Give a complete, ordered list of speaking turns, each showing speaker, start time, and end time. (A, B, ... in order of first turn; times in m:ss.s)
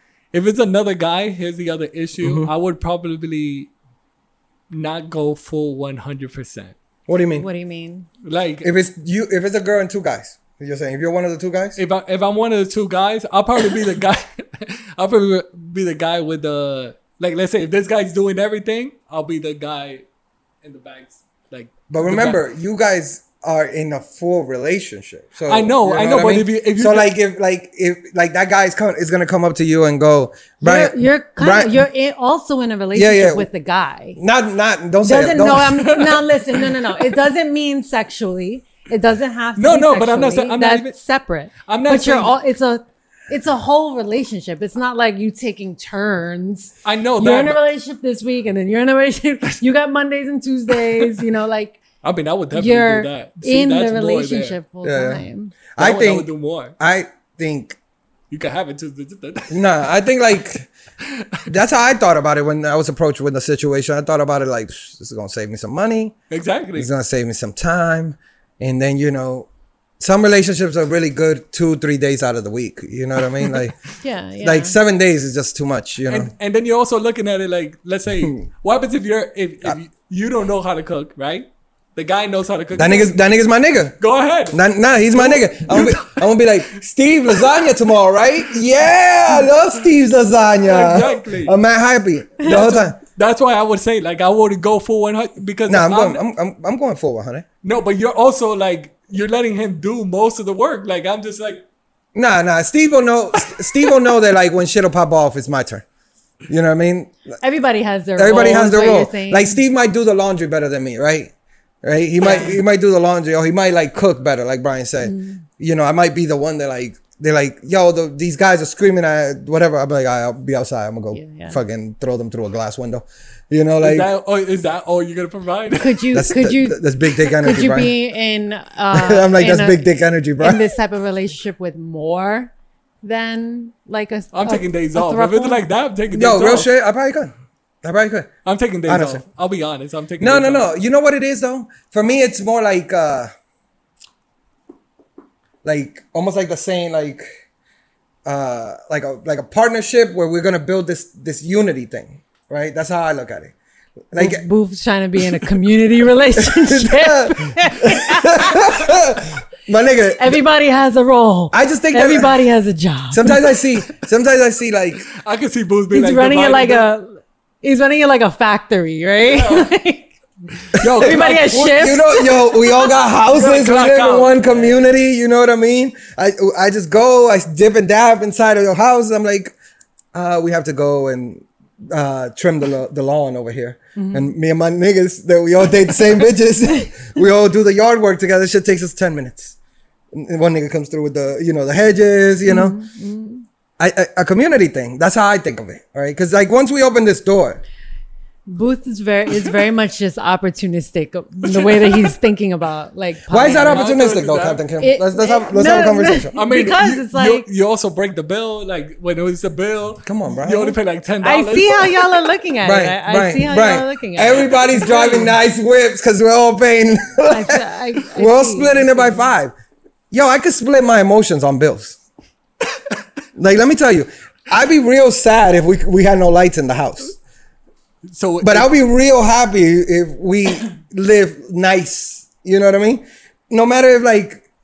0:00.3-0:03.7 A
0:02.2-0:02.5 B
0:04.7-0:06.7 A
0:07.1-0:07.5 B
0:07.3-0:08.1 C
0:08.2-0:08.7 A
0:08.6-0:11.8 B
0:11.8-0:20.0 A
0:20.6-0:22.4 A
0:21.9-0:31.8 B
0:25.5-0:27.1 A
0:30.6-0:34.2 C
0:32.9-0:33.5 B
0:34.2-0:35.8 B
0:35.0-0:51.8 C
0:35.8-0:36.8 A
0:39.6-0:41.0 A
0:41.6-0:42.3 A
0:46.8-0:47.6 A
0:52.0-0:54.6 A
0:52.5-0:55.5 C
0:54.8-0:55.2 B
0:55.8-0:57.8 B
0:55.8-0:56.7 A
0:58.3-0:59.9 A
0:59.5-1:00.7 B
1:01.0-1:01.5 A
1:01.5-1:06.1 B
1:06.3-1:06.9 A
1:06.8-1:09.5 B
1:10.0-1:13.8 B
1:14.0-1:14.7 C
1:14.4-1:16.3 B
1:16.1-1:23.2 A
1:22.8-1:24.0 B
1:24.0-1:24.6 A
1:24.5-1:33.0 B
1:25.1-1:26.3 A
1:30.6-1:31.5 A
1:32.4-1:36.2 A
1:35.7-1:37.4 B
1:37.6-1:41.6 A
1:42.1-1:45.8 B
1:46.5-1:47.3 B
1:47.4-1:49.6 C
1:48.2-2:04.1 B
1:52.2-1:52.6 C
1:55.0-1:55.4 C
2:01.1-2:01.6 C
2:03.8-2:06.0 A
2:05.8-2:09.8 C
2:06.1-2:07.9 B
2:08.9-2:10.6 B
2:10.4-2:12.5 C
2:13.0-2:15.6 C
2:14.3-2:16.7 A
2:16.1-2:18.3 B
2:18.4-2:20.6 A
2:18.9-2:19.2 B
2:20.2-2:23.3 B
2:25.6-2:27.2 B
2:28.2-2:33.5 B
2:34.1-2:34.4 B
2:34.1-2:38.9 C
2:36.4-2:40.4 B
2:40.2-2:43.4 C
2:41.5-2:42.4 B
2:43.1-2:45.0 B
2:45.1-2:46.9 A
2:45.9-2:50.1 C
2:49.3-2:49.7 A
2:50.7-2:51.8 A
2:50.8-2:52.9 C
2:50.8-2:59.5 B
2:53.3-2:54.8 A
3:00.1-3:09.6 B
3:04.0-3:04.3 C
3:10.1-3:12.8 B
3:12.4-3:13.4 C
3:13.8-3:17.6 B
3:18.5-3:23.8 C
3:21.4-3:22.1 A
3:23.3-3:26.3 B
3:23.6-3:24.6 A
3:24.8-3:27.4 C
3:26.3-3:32.0 A
3:30.0-3:30.8 B
3:31.2-3:35.3 C
3:32.6-3:39.5 B
3:37.3-3:39.3 C
3:40.1-3:42.0 B
3:43.4-3:47.2 B
3:48.1-3:48.7 A
3:48.4-3:54.4 B